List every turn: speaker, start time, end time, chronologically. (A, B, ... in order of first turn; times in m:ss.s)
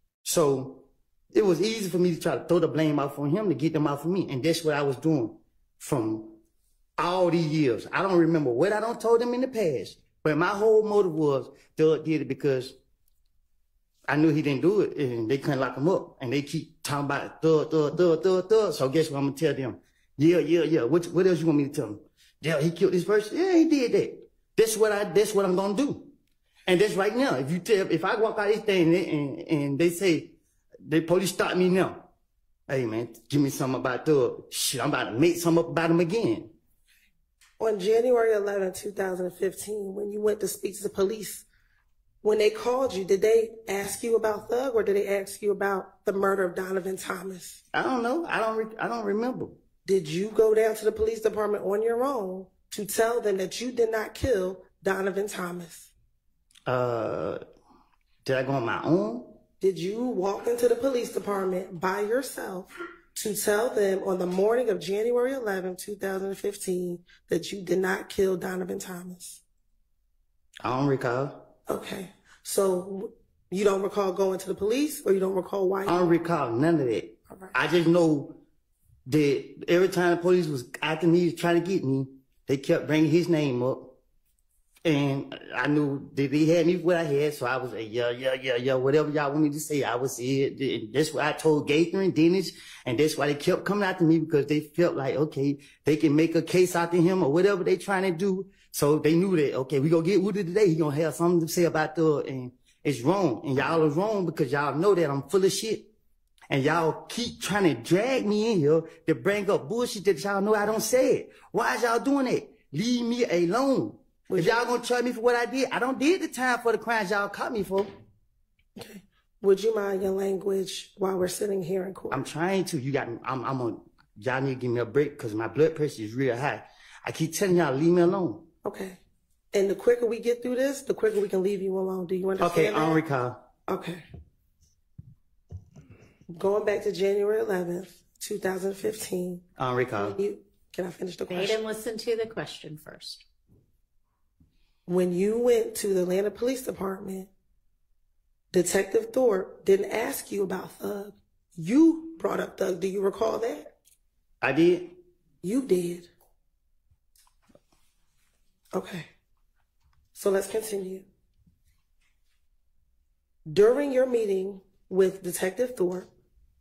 0:00.2-0:06.4 A
0:07.0-0:12.8 A
0:14.1-0:26.1 A
0:26.7-0:32.1 A
0:32.7-0:36.5 A
0:37.6-0:41.5 B
0:42.2-0:47.6 B
0:47.7-0:49.6 A
0:49.8-0:55.9 B
0:56.7-0:57.4 A
0:58.2-0:59.4 A
0:59.6-1:09.4 B
1:10.6-1:11.5 A
1:11.7-1:16.1 B
1:15.9-1:18.4 A
1:19.1-1:24.0 A
1:24.8-1:45.9 A
1:46.5-1:57.9 A
1:54.3-1:54.6 B
1:58.8-2:02.3 B
2:02.1-2:08.4 A
2:08.6-2:09.0 B
2:09.5-2:13.0 B
2:12.4-2:13.4 A
2:13.7-2:14.0 B
2:16.3-2:19.4 B
2:19.6-2:20.2 A
2:20.0-2:21.6 B
2:21.3-2:23.2 C
2:24.9-2:27.3 B
2:28.5-2:33.7 B
2:34.4-2:35.0 A
2:35.4-2:36.1 B
2:38.7-2:39.1 B
2:40.1-2:41.1 B
2:43.5-2:46.1 B